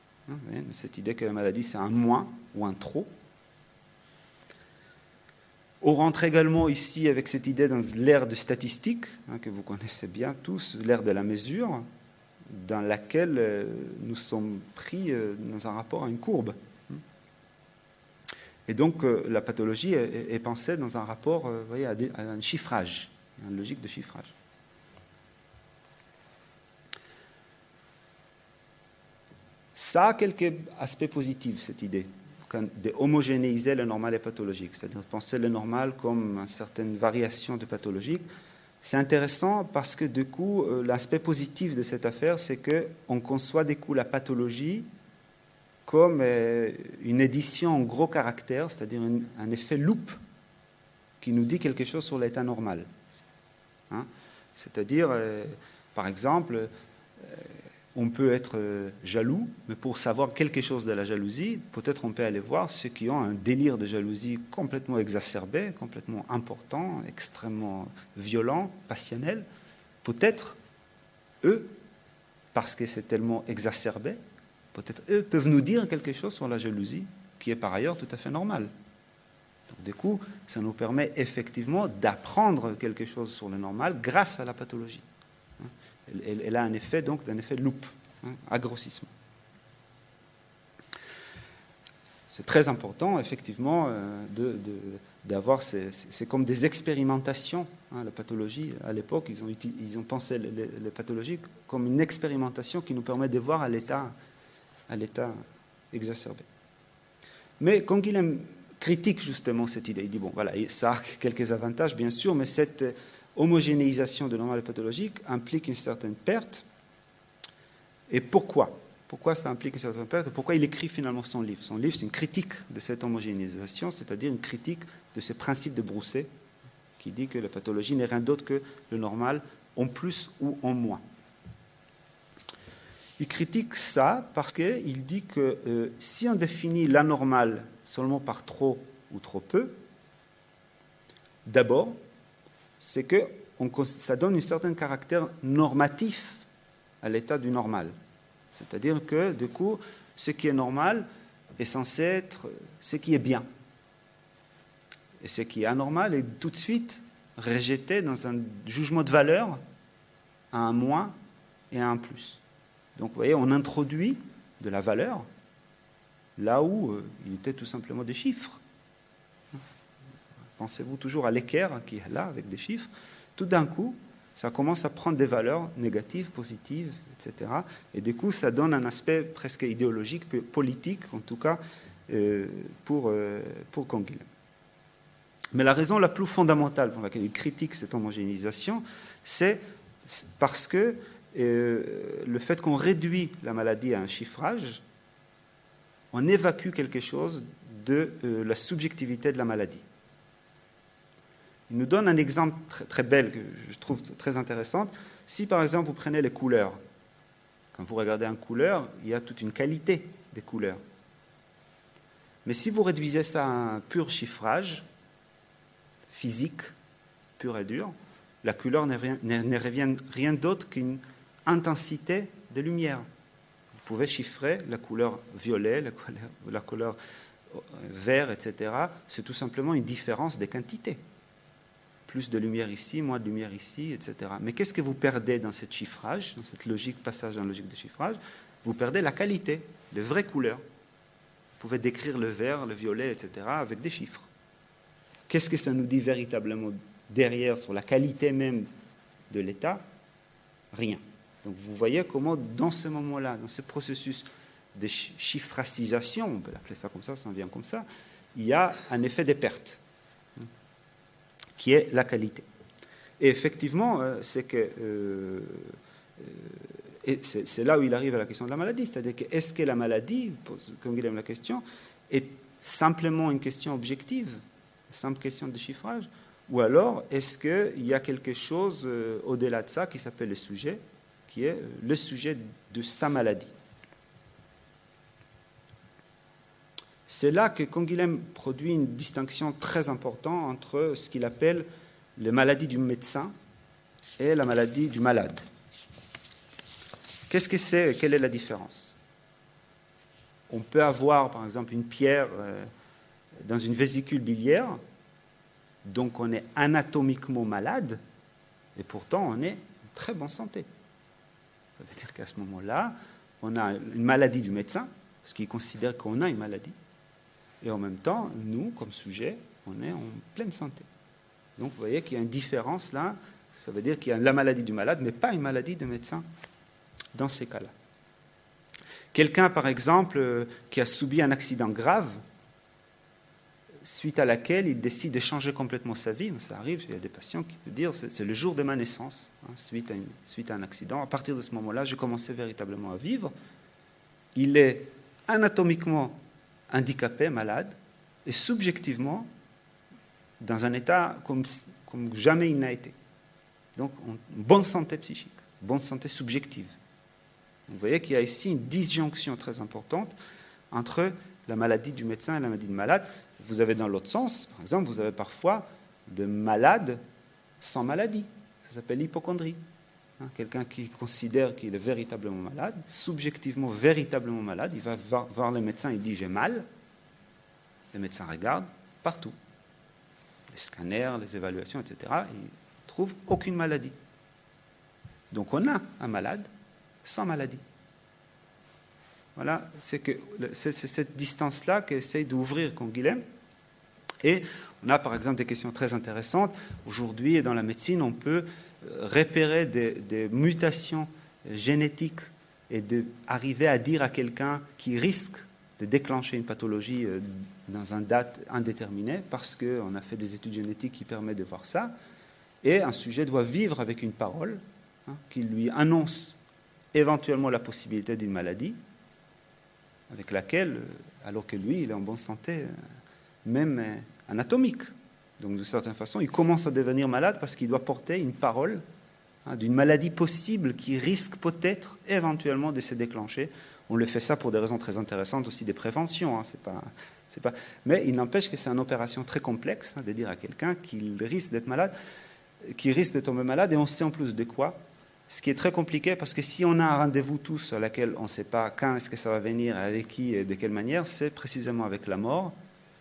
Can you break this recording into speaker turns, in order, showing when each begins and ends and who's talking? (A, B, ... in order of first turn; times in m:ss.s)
0:00.3-0:03.1 A
0:05.8-0:11.8 A
0:12.5-0:17.0 A
0:18.7-0:24.3 A
0:29.7-0:38.2 A
0:38.8-0:44.9 A
0:45.8-0:50.2 A
0:51.2-0:52.9 A
0:53.9-1:09.4 A
1:10.0-1:10.6 A
1:11.4-1:11.7 A
1:12.5-1:14.2 A
1:14.7-1:18.7 A
1:19.7-1:25.0 A
1:25.6-1:29.1 A
1:32.3-1:44.1 A
1:44.9-1:45.4 A
1:45.9-1:46.4 A
1:47.6-1:56.6 A
1:58.1-2:06.3 A
2:07.0-2:11.0 A
2:13.2-2:19.8 A
2:21.4-2:22.0 A
2:22.8-2:26.4 A
2:27.0-2:27.9 A
2:28.5-2:31.0 A
2:31.6-2:33.4 A
2:35.2-2:39.6 A
2:40.5-2:41.1 A
2:41.7-2:42.4 A
2:43.0-2:45.2 A
2:46.4-2:48.6 A
2:50.6-3:04.3 A
3:05.5-3:14.8 A
3:16.1-3:19.8 A
3:21.7-3:26.8 A
3:27.7-3:30.8 A
3:32.4-3:34.8 A
3:36.1-3:36.7 A
3:37.4-3:43.0 A
3:43.8-3:47.0 A
3:47.5-3:51.0 A
3:52.1-4:00.6 A
4:01.6-4:04.3 A
4:05.3-4:08.7 A
4:09.3-4:09.8 A
4:10.7-4:19.8 A
4:21.6-4:22.4 A
4:23.2-4:43.5 A
4:47.1-4:51.6 A
4:52.2-4:53.3 A
4:54.2-4:55.4 A
4:57.3-4:59.0 A
5:00.5-5:02.7 A
5:03.4-5:04.8 A
5:05.8-5:08.0 A
5:08.8-5:10.7 A
5:11.8-5:16.7 A
5:17.6-5:20.8 A
5:21.6-5:26.2 A
5:27.1-5:27.7 A
5:29.1-5:32.2 A
5:33.8-5:43.3 A
5:44.3-5:46.2 A
5:46.7-5:49.3 A
5:50.4-5:52.9 A
5:53.8-5:56.8 A
5:57.7-6:00.1 A
6:00.7-6:07.0 A
6:07.6-6:09.6 A
6:10.2-6:16.6 A
6:17.9-6:19.3 A
6:20.5-6:23.9 A
6:25.3-6:26.5 A
6:27.0-6:27.6 A
6:29.4-6:33.2 A
6:34.2-6:51.9 A
6:52.6-6:56.4 A
6:56.9-6:58.8 A
7:00.1-7:02.8 A
7:03.4-7:08.8 A
7:09.4-7:21.9 A
7:22.6-7:32.5 A